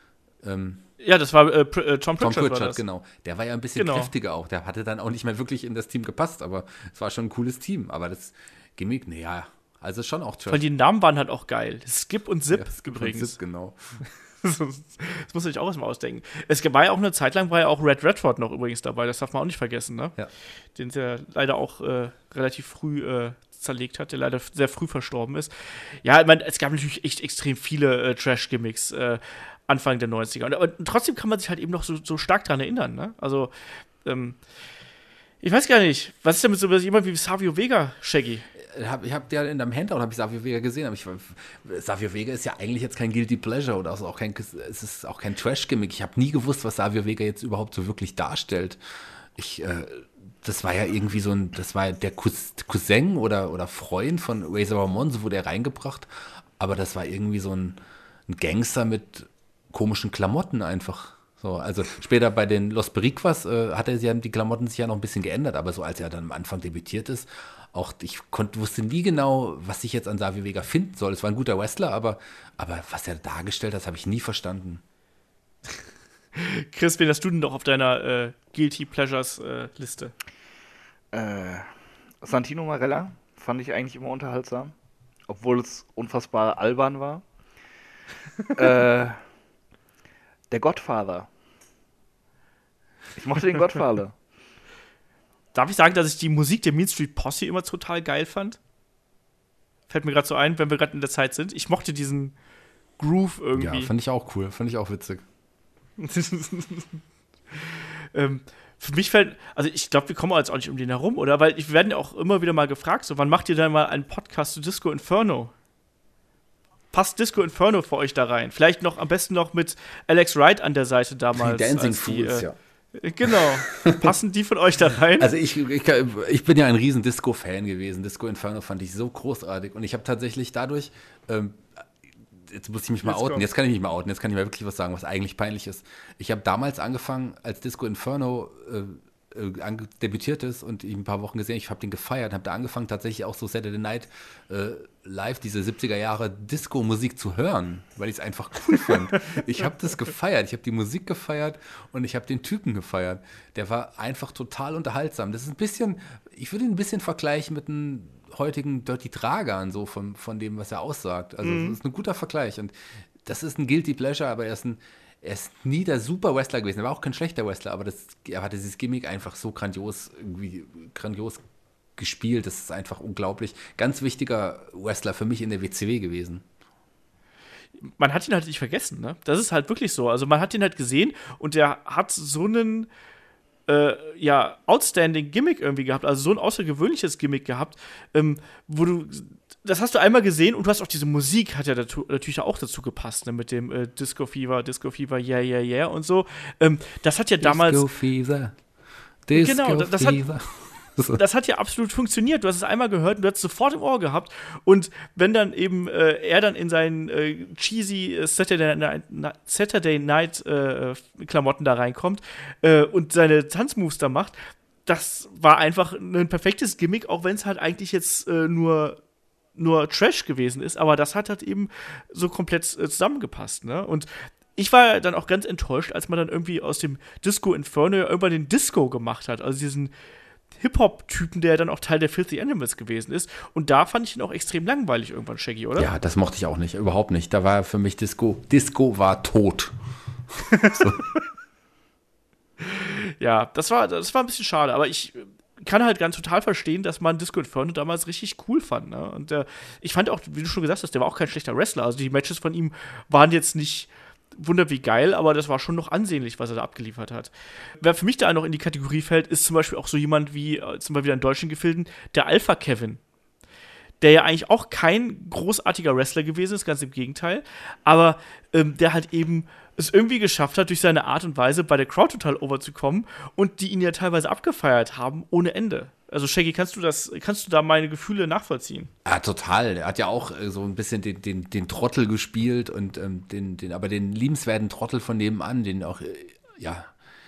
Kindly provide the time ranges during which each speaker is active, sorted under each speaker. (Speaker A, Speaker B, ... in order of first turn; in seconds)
Speaker A: 0.4-0.8, 2.2-10.6, 12.5-14.0, 38.6-48.8, 49.4-74.8, 103.5-105.2, 121.3-122.5, 123.3-124.1, 125.2-131.8, 132.4-171.4, 172.0-176.4, 197.4-198.5, 199.3-201.2, 235.8-239.7, 240.7-241.0, 279.0-286.9
Speaker B: 1.0-2.8, 3.8-4.1, 10.5-13.4, 14.0-20.1, 20.8-33.5, 34.0-34.4, 35.4-38.4, 76.3-80.1, 95.5-98.6, 99.9-102.3, 103.0-103.9, 106.0-107.0, 107.5-115.5, 116.9-125.3, 133.0-133.4, 161.4-161.8, 177.8-182.9, 183.7-197.8, 199.3-200.2, 201.1-219.0, 219.6-229.9, 230.5-235.9, 240.5-240.8, 242.6-263.0, 264.0-278.9
Speaker C: 81.1-81.7, 82.2-84.7, 85.3-87.2, 88.5-89.2, 90.5-91.3, 93.2-94.1